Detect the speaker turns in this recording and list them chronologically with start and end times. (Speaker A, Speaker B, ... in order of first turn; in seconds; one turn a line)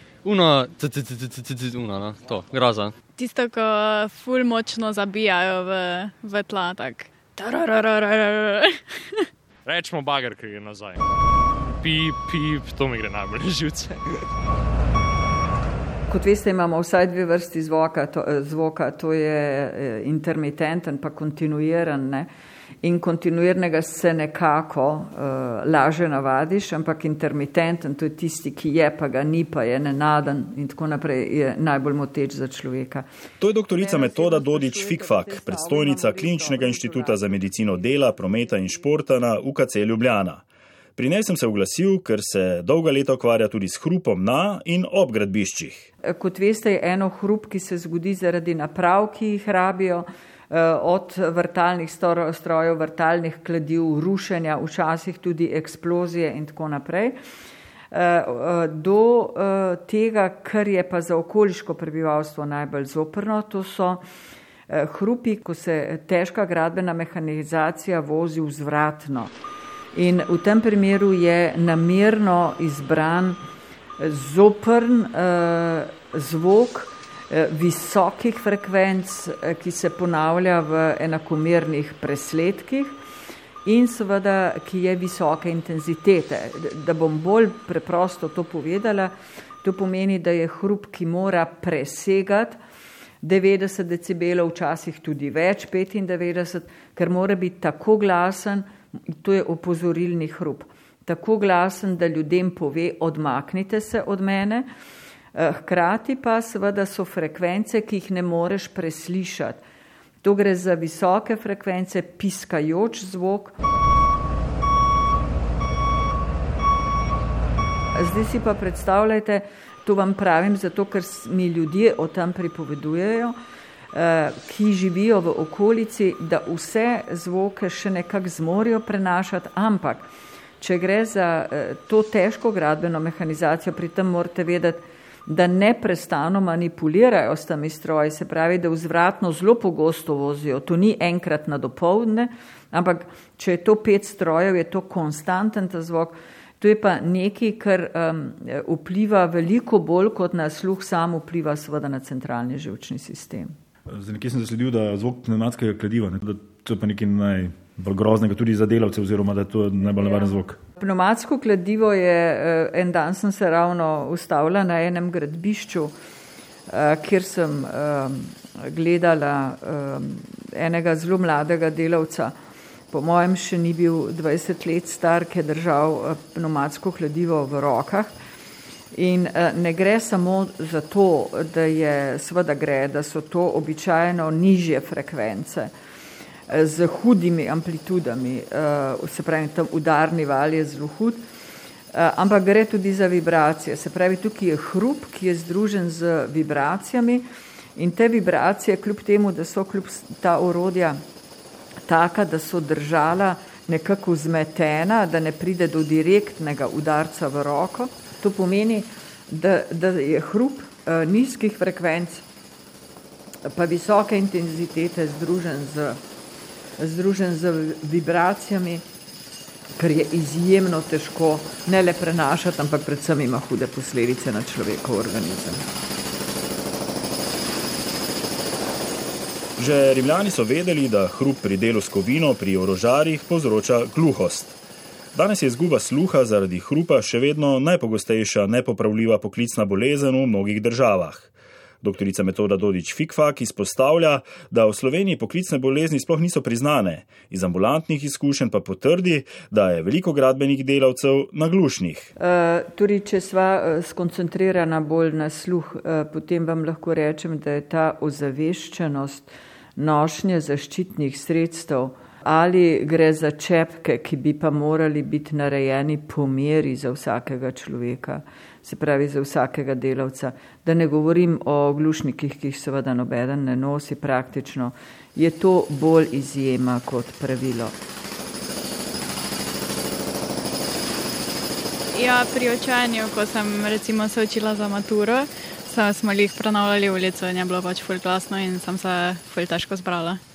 Speaker A: 0.2-2.9
Speaker B: 3.2-9.2
Speaker C: 9.6-11.0
Speaker C: 11.6-14.2
Speaker D: 16.1-22.3
Speaker D: 22.8-33.0
Speaker E: 33.4-40.4
Speaker D: 33.8-37.2
Speaker E: 41.0-45.9
Speaker D: 46.0-57.2
Speaker D: 57.9-64.0
Speaker D: 64.7-69.3
Speaker D: 69.9-73.4
Speaker D: 74.0-83.0
Speaker D: 83.6-92.6
Speaker D: 93.2-104.7
Speaker D: 105.3-109.6
Speaker D: 110.2-113.5
Speaker D: 117.9-123.3
Speaker D: 123.9-130.1
Speaker D: 130.6-153.5
Speaker F: 153.9-160.6
Speaker D: 160.8-165.9
Speaker D: 166.7-172.3
Speaker D: 172.9-178.1
Speaker D: 178.9-185.7
Speaker D: 186.5-191.2
Speaker D: 191.9-201.0
Speaker D: 201.8-212.2
Speaker D: 213.4-216.0
Speaker D: 216.8-218.8
Speaker D: 219.8-225.6
Speaker E: 229.6-234.6
Speaker E: 235.1-252.1
Speaker D: 252.2-277.8
Speaker B: 281.9-290.2